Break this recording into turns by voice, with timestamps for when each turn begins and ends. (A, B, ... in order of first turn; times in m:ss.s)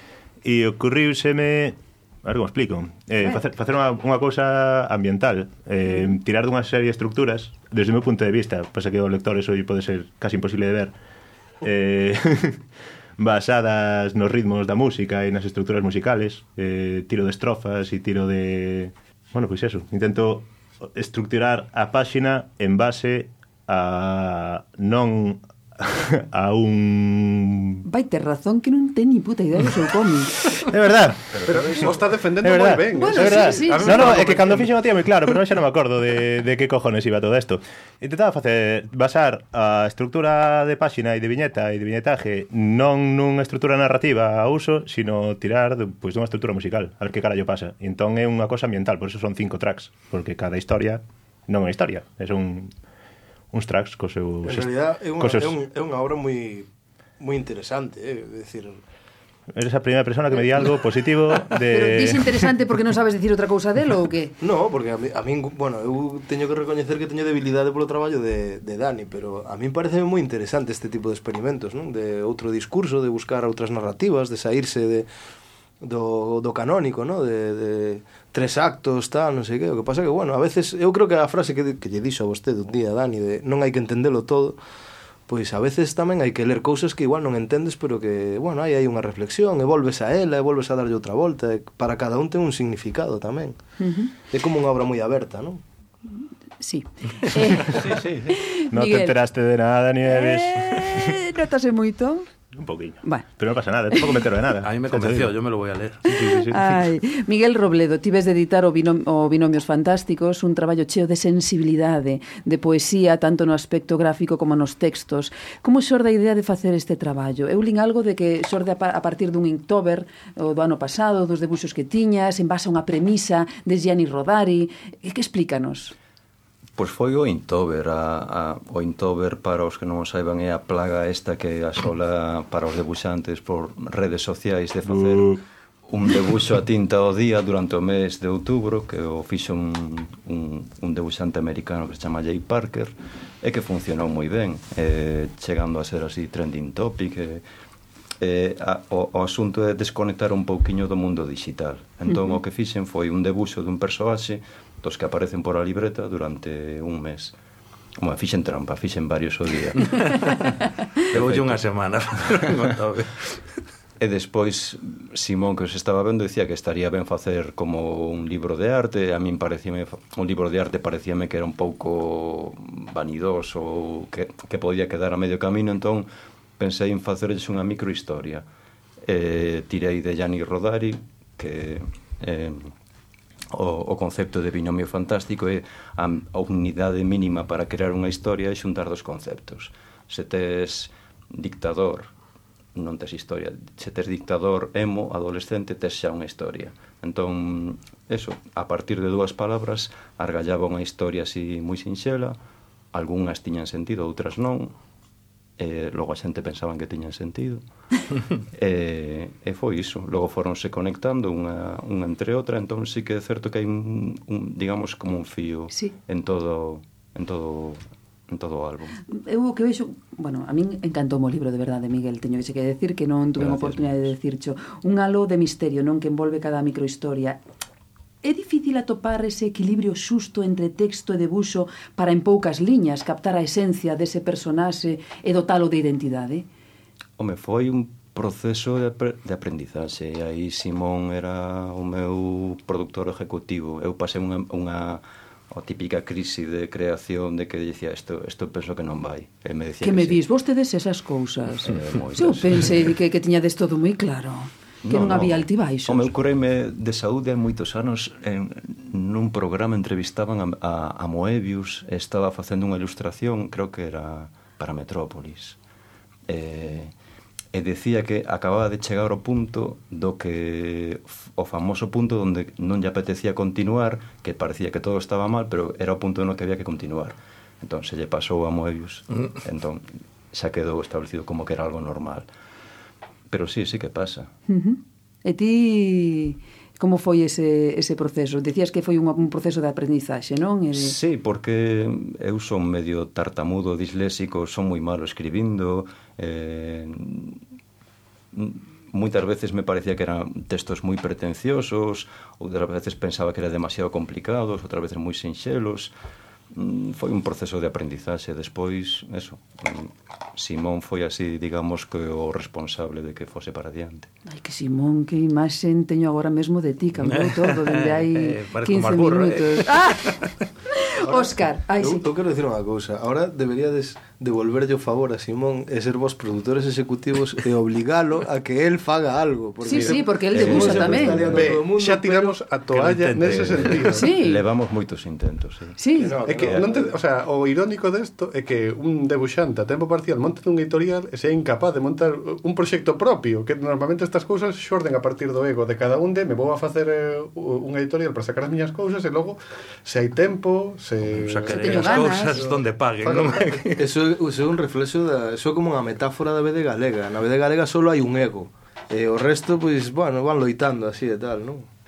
0:00.4-0:11.0 A
0:11.6-0:12.6 A
0:13.2-0:27.8 A
0:27.9-0:30.3 B
0:30.5-0:31.9 A
0:31.3-0:32.0 C
0:31.4-0:34.7 D
0:32.4-0:52.7 A
0:33.0-0:34.2 B
0:53.5-0:55.6 A
0:54.4-0:58.8 E
0:59.5-1:02.5 A
1:01.7-1:04.3 B
1:04.4-1:15.1 E
1:15.8-1:24.6 E
1:25.3-1:33.6 E
1:33.8-1:34.1 B
1:34.2-1:35.6 E
1:36.6-1:39.2 B
1:38.7-1:41.2 A
1:40.1-1:42.3 B
1:42.5-1:45.4 A
1:43.0-1:43.3 B
1:43.9-1:44.2 B
1:44.6-1:46.0 F
1:46.0-1:46.8 A
1:46.1-2:05.9 B
2:06.8-2:27.4 C
2:14.9-2:15.4 A
2:28.2-2:37.4 C
2:38.0-2:40.1 C
2:41.1-2:41.6 C
2:41.1-2:43.4 F
2:44.0-2:58.4 C
2:59.0-3:02.7 C
3:03.5-3:12.1 C
3:12.8-3:22.4 C
3:22.9-3:24.8 C
3:25.6-3:27.6 C
3:28.5-3:39.0 C
3:39.1-3:47.4 B
3:43.3-3:44.1 C
3:48.2-3:56.5 B
3:57.2-4:10.2 C
4:09.8-4:16.1 B
4:11.6-4:12.9 C
4:14.8-4:25.6 C
4:26.3-4:26.9 C
4:27.5-4:42.3 C
4:43.3-4:44.3 C
4:44.5-4:50.9 B
4:50.7-4:57.4 C
4:58.3-5:05.9 C
5:06.5-5:14.1 C
5:14.3-5:22.1 B
5:17.0-5:20.3 F
5:21.0-5:32.4 E
5:29.6-5:31.4 B
5:30.3-5:31.2 C
5:31.2-5:34.1 D
5:32.7-5:35.8 C
5:33.9-5:34.4 B
5:35.8-5:36.2 B
5:36.0-5:36.9 E
5:36.2-5:52.0 D
5:36.3-5:36.6 C
5:51.1-5:53.9 F
5:51.5-5:52.4 B
5:52.4-6:01.6 E